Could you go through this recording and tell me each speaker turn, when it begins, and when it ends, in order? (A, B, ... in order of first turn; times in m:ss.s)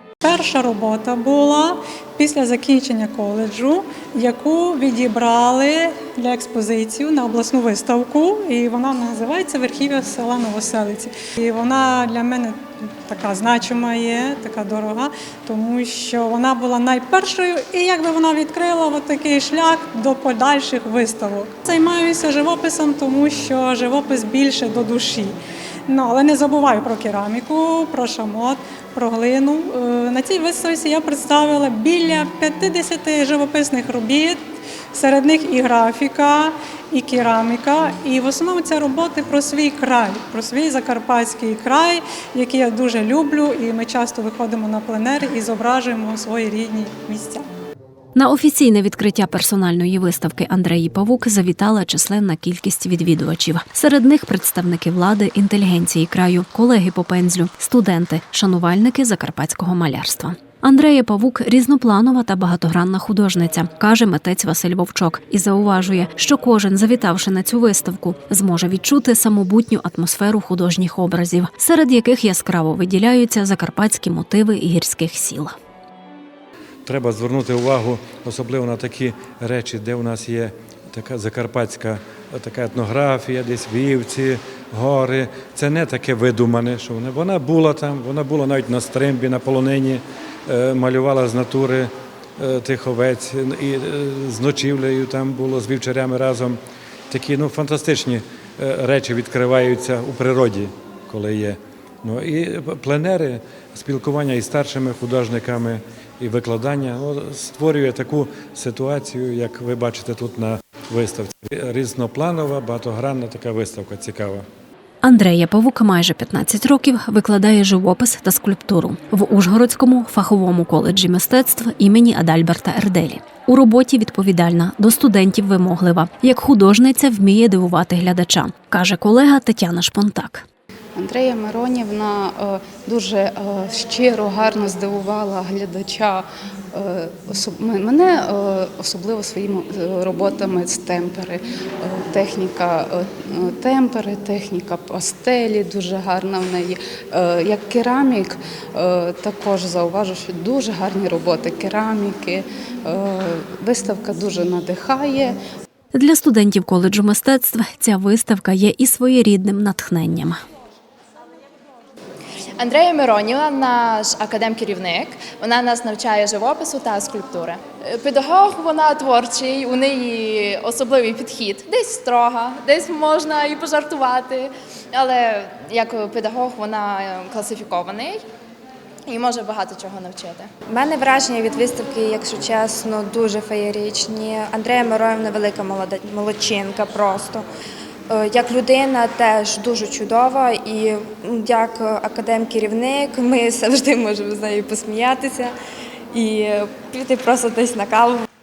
0:00.2-0:25.4 A
0:25.9-0:34.4 A
0:34.9-0:47.4 A
0:48.1-1:15.5 B
1:16.8-1:36.6 C
1:37.1-1:54.4 C
1:55.0-2:10.4 B
2:11.1-2:16.0 D
2:17.1-2:17.8 D
2:18.8-2:19.6 D
2:20.2-2:21.0 D
2:22.0-2:22.2 D
2:23.6-2:24.5 D
2:25.2-2:26.7 D
2:27.5-2:28.2 D
2:29.2-2:30.6 D
2:31.1-2:32.4 D
2:33.3-2:35.0 D
2:35.9-2:40.4 B
2:42.6-2:58.2 E
2:59.1-3:00.5 E
3:00.7-3:07.4 F
3:08.1-3:15.5 F
3:16.1-3:18.2 F